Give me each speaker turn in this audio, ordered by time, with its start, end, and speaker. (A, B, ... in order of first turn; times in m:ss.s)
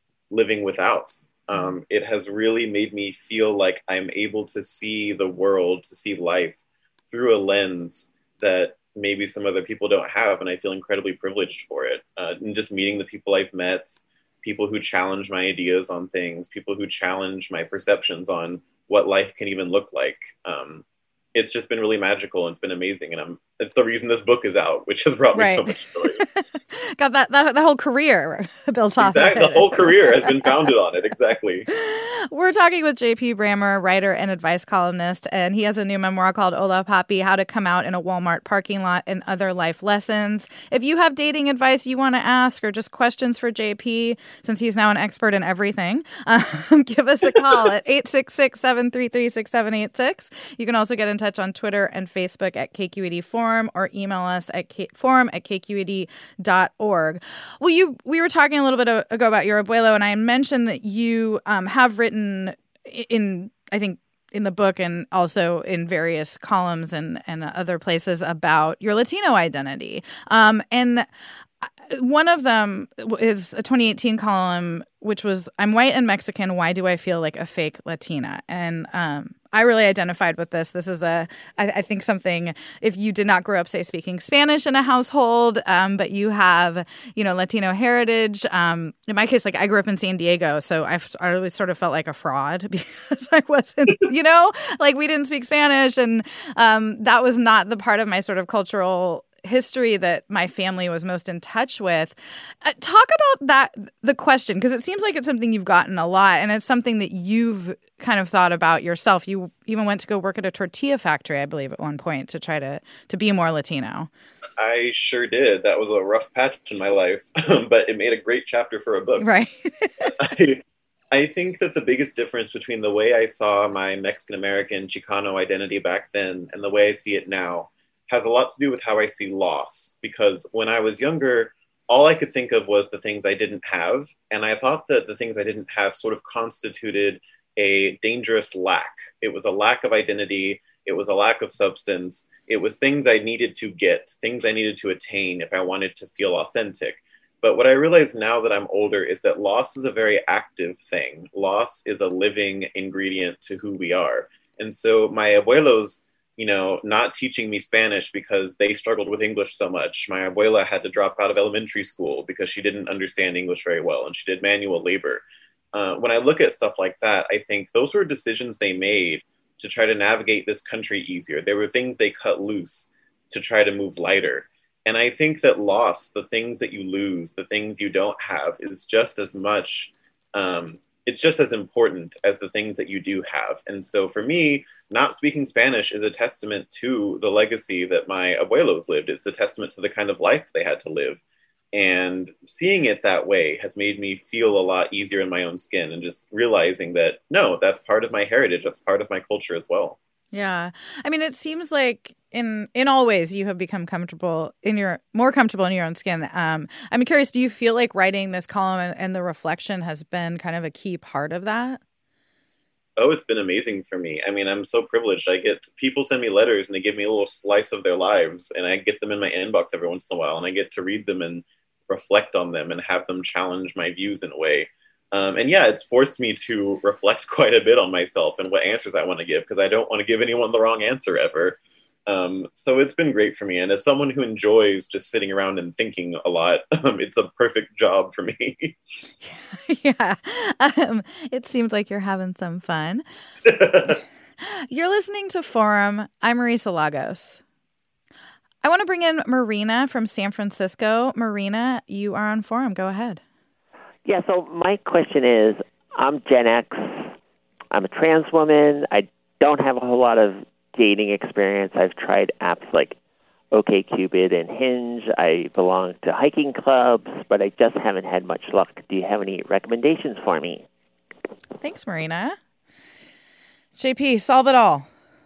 0:00.3-0:26.2 A
0:25.3-0:30.5 B
0:29.0-0:31.7 A
0:31.7-1:11.1 B
1:11.6-1:54.1 B
1:54.6-1:59.3 A
1:59.2-2:00.1 B
2:00.2-3:11.2 A
3:11.7-3:20.0 A
3:20.3-3:31.8 B
3:33.0-3:58.8 A
3:59.2-4:03.0 B
4:03.4-4:04.0 A
4:04.4-4:07.4 B
4:08.6-4:13.2 B
4:14.0-4:17.1 C
4:17.7-4:23.0 C
4:23.5-4:30.6 C
4:31.6-4:32.4 B
4:33.8-4:34.9 B